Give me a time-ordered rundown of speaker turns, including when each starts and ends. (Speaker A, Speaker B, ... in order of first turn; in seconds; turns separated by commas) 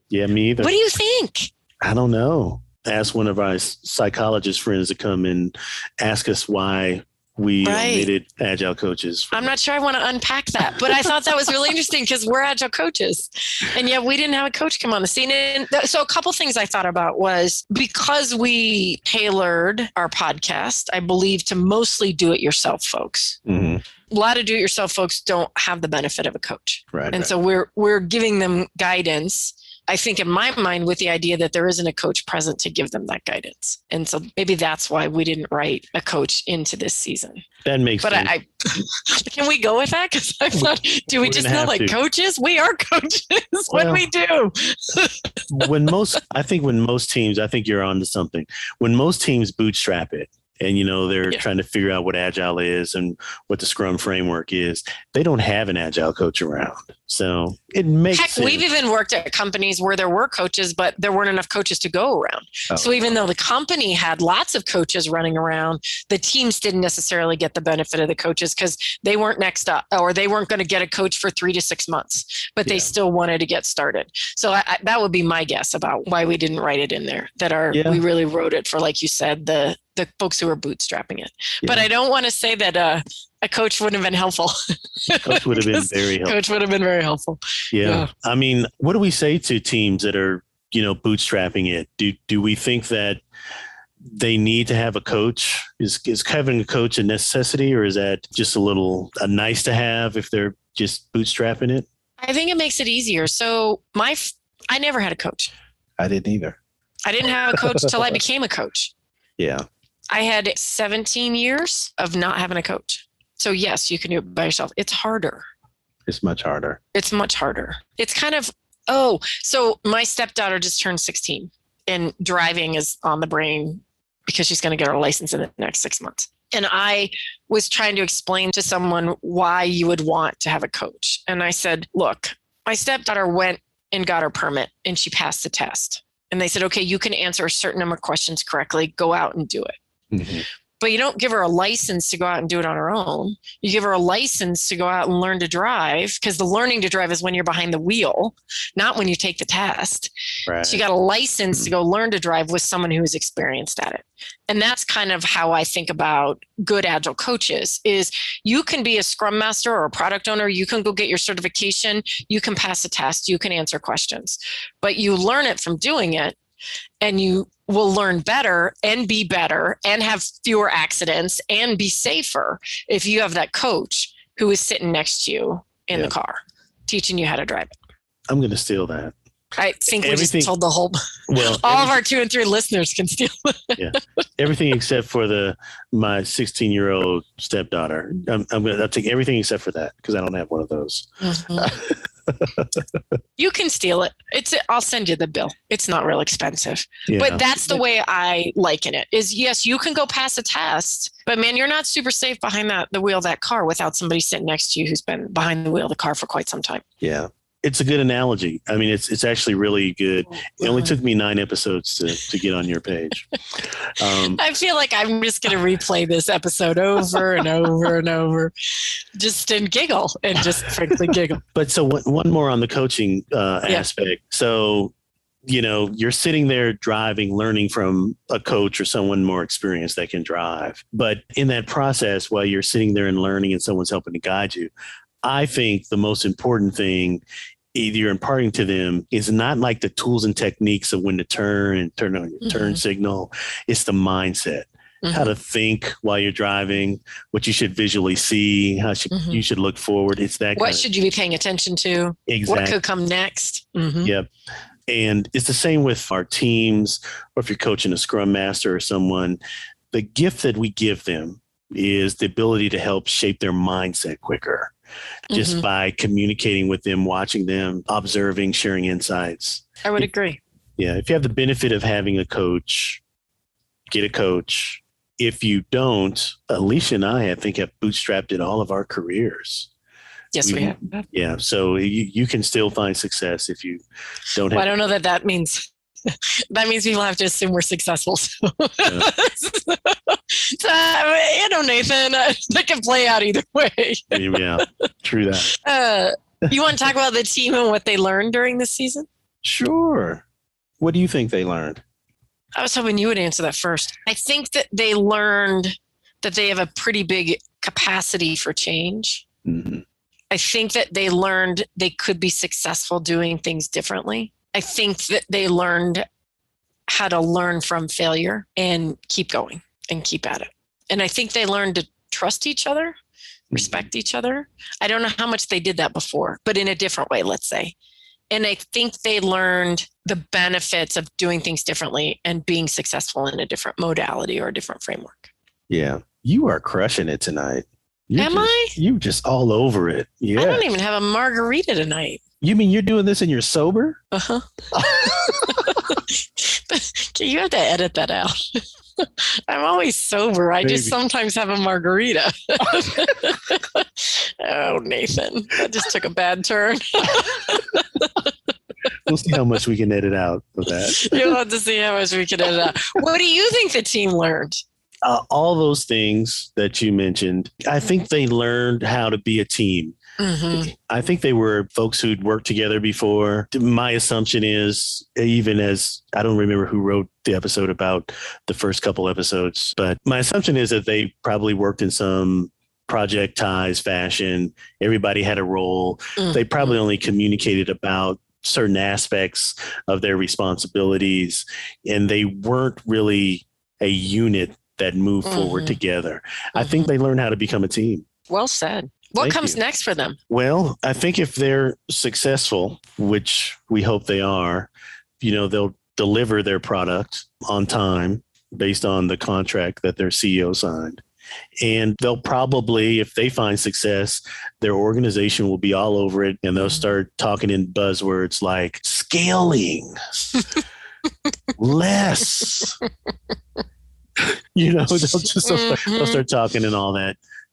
Speaker A: 0.1-0.7, Speaker B: 0.6-1.5, Speaker A: 1.8-9.6, Speaker B: 7.6-8.1, Speaker B: 9.3-23.4, Speaker A: 10.8-11.1, Speaker A: 23.5-23.8, Speaker B: 24.1-37.5, Speaker A: 26.9-27.3, Speaker A: 37.6-38.3, Speaker B: 38.0-45.7, Speaker A: 40.5-42.0, Speaker A: 43.7-44.0, Speaker A: 45.5-58.7, Speaker B: 58.1-88.1, Speaker A: 62.7-63.2, Speaker A: 72.7-72.9, Speaker A: 77.7-78.0, Speaker A: 81.6-81.9, Speaker A: 85.1-86.4, Speaker A: 87.7-93.2, Speaker A: 94.0-101.9, Speaker B: 102.2-105.5, Speaker A: 106.0-106.6, Speaker B: 107.1-108.9, Speaker A: 107.5-108.2, Speaker A: 109.4-109.7, Speaker B: 110.1-115.5, Speaker A: 116.1-116.8, Speaker B: 116.9-139.8, Speaker A: 140.1-140.4, Speaker B: 140.8-150.1, Speaker A: 150.5-150.8, Speaker B: 150.6-166.4, Speaker B: 167.0-177.7, Speaker A: 178.3-179.2, Speaker B: 179.6-184.0, Speaker A: 180.0-180.5, Speaker A: 181.3-182.0, Speaker A: 183.8-193.0, Speaker B: 191.2-191.7, Speaker B: 193.4-206.8, Speaker A: 197.1-197.8, Speaker A: 207.0-214.4, Speaker B: 210.6-210.9, Speaker B: 214.3-218.5, Speaker B: 219.2-221.4, Speaker A: 221.5-224.9, Speaker A: 225.4-234.7, Speaker A: 235.2-237.2, Speaker A: 237.7-250.8, Speaker B: 242.4-242.8, Speaker B: 245.0-245.3, Speaker B: 249.1-249.4, Speaker B: 250.6-254.1, Speaker A: 252.3-252.8, Speaker A: 254.0-254.3, Speaker A: 254.9-259.4, Speaker A: 259.9-264.7, Speaker B: 265.3-265.6, Speaker A: 265.3-270.1, Speaker B: 269.8-270.4, Speaker A: 270.8-273.0, Speaker A: 273.9-279.7, Speaker B: 280.3-281.1, Speaker A: 280.4-284.8, Speaker B: 284.5-294.7, Speaker A: 294.1-295.5, Speaker B: 295.5-299.1, Speaker A: 299.4-300.2, Speaker A: 300.8-301.8, Speaker B: 302.6-309.2, Speaker A: 309.4-309.8, Speaker B: 310.3-316.1, Speaker B: 316.9-323.0, Speaker A: 323.5-323.9, Speaker B: 323.5-327.8, Speaker B: 328.3-335.3, Speaker A: 335.7-340.7, Speaker B: 338.2-338.8, Speaker B: 340.4-342.2, Speaker A: 342.4-344.0, Speaker B: 344.1-358.2, Speaker A: 344.7-345.8, Speaker A: 350.6-350.9, Speaker A: 359.1-361.4, Speaker B: 360.9-364.6, Speaker A: 365.0-370.0, Speaker B: 370.2-370.7, Speaker A: 370.5-398.1, Speaker B: 386.2-386.8, Speaker B: 395.2-395.8, Speaker B: 396.6-396.9, Speaker B: 398.3-400.2, Speaker A: 399.2-399.6, Speaker A: 400.3-411.0, Speaker A: 411.6-420.0, Speaker A: 421.6-422.8, Speaker A: 424.2-427.2, Speaker B: 425.5-426.2